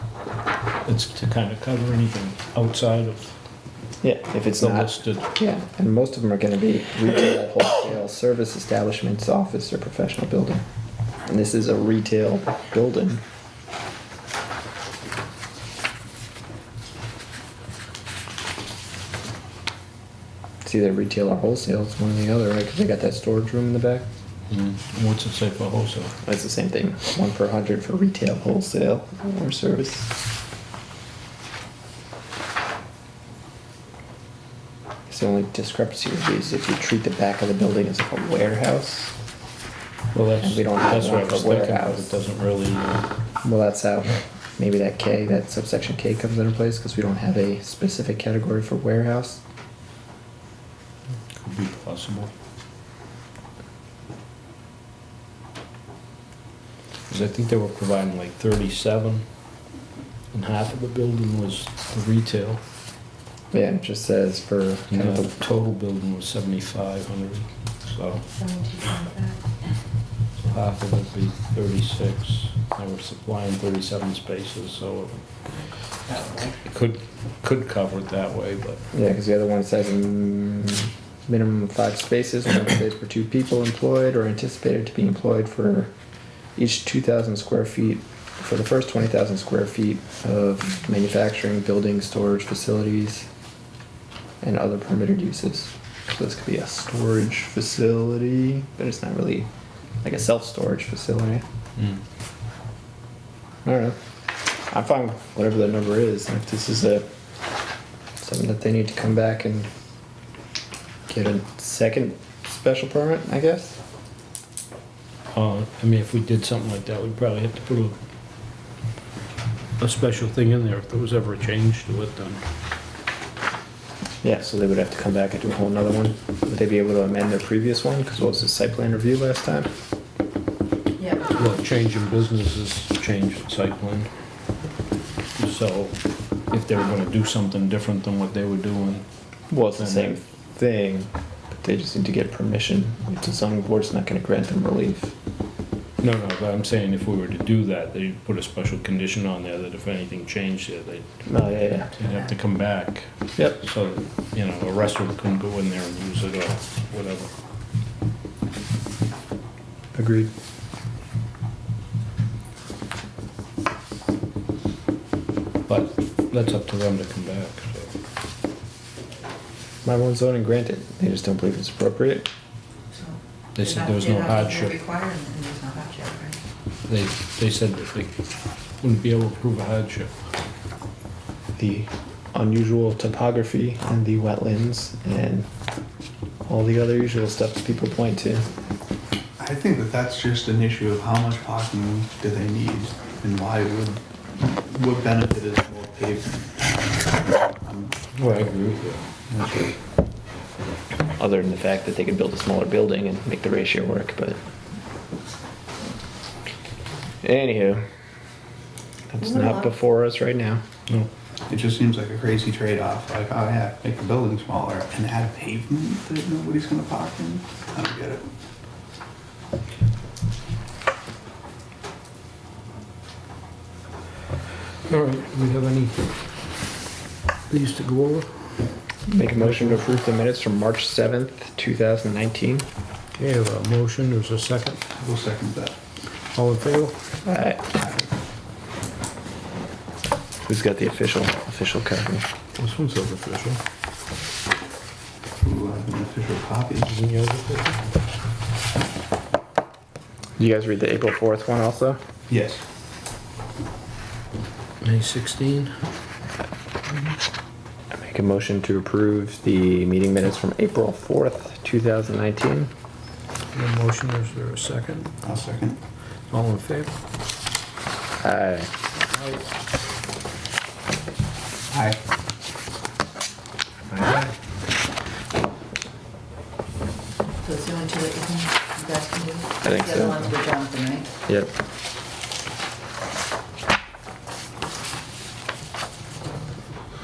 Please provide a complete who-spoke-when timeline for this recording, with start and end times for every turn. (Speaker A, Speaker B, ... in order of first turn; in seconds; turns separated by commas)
Speaker A: 0.8-3.3, Speaker B: 4.0-10.7, Speaker A: 4.6-5.3, Speaker B: 11.3-13.2, Speaker B: 20.6-24.1, Speaker A: 24.5-26.2, Speaker B: 26.2-30.1, Speaker B: 35.1-39.1, Speaker A: 40.1-43.1, Speaker B: 40.4-42.1, Speaker B: 43.4-49.4, Speaker A: 51.3-52.3, Speaker A: 57.1-59.2, Speaker A: 60.3-62.6, Speaker B: 63.5-65.4, Speaker A: 64.9-68.2, Speaker C: 68.4-69.4, Speaker A: 70.4-75.2, Speaker C: 76.1-76.6, Speaker A: 76.6-78.8, Speaker B: 78.9-85.9, Speaker B: 86.6-93.3, Speaker B: 94.4-99.5, Speaker B: 100.0-101.5, Speaker B: 103.7-104.0, Speaker B: 104.7-107.1, Speaker B: 108.2-109.7, Speaker B: 111.1-113.8, Speaker A: 115.3-118.0, Speaker A: 119.8-122.4, Speaker B: 124.2-129.7, Speaker C: 131.0-131.5, Speaker A: 131.3-134.1, Speaker A: 135.4-136.0, Speaker A: 136.5-139.1, Speaker B: 139.5-145.1, Speaker A: 139.8-140.2, Speaker A: 146.0-157.3, Speaker B: 151.3-151.9, Speaker B: 159.9-160.3, Speaker A: 165.7-167.9, Speaker B: 169.8-172.3, Speaker C: 172.9-176.4, Speaker A: 173.6-174.8, Speaker A: 176.9-178.1, Speaker A: 178.8-180.1, Speaker B: 181.6-185.5, Speaker B: 186.5-188.5, Speaker D: 189.4-198.1, Speaker A: 198.2-199.0, Speaker D: 199.3-199.7, Speaker B: 201.2-204.4, Speaker B: 207.2-207.8, Speaker B: 209.1-210.6, Speaker C: 209.2-209.6, Speaker D: 211.5-218.3, Speaker A: 224.9-226.1, Speaker A: 227.5-228.3, Speaker B: 229.1-232.7, Speaker A: 229.4-229.8, Speaker A: 233.2-234.8, Speaker D: 234.9-235.8, Speaker A: 236.3-237.0, Speaker B: 237.2-237.7, Speaker D: 237.7-238.0, Speaker B: 240.4-242.3, Speaker A: 242.6-243.6, Speaker D: 245.4-246.9, Speaker A: 246.8-247.8, Speaker B: 250.4-252.0, Speaker D: 252.3-252.6, Speaker A: 254.8-255.7, Speaker B: 257.9-262.7, Speaker A: 263.5-265.1, Speaker D: 265.2-265.8, Speaker A: 266.3-266.9, Speaker B: 268.2-268.7, Speaker A: 269.1-269.4, Speaker D: 271.7-272.0, Speaker A: 273.9-274.3, Speaker C: 277.4-281.1, Speaker B: 279.6-280.3, Speaker B: 281.3-281.5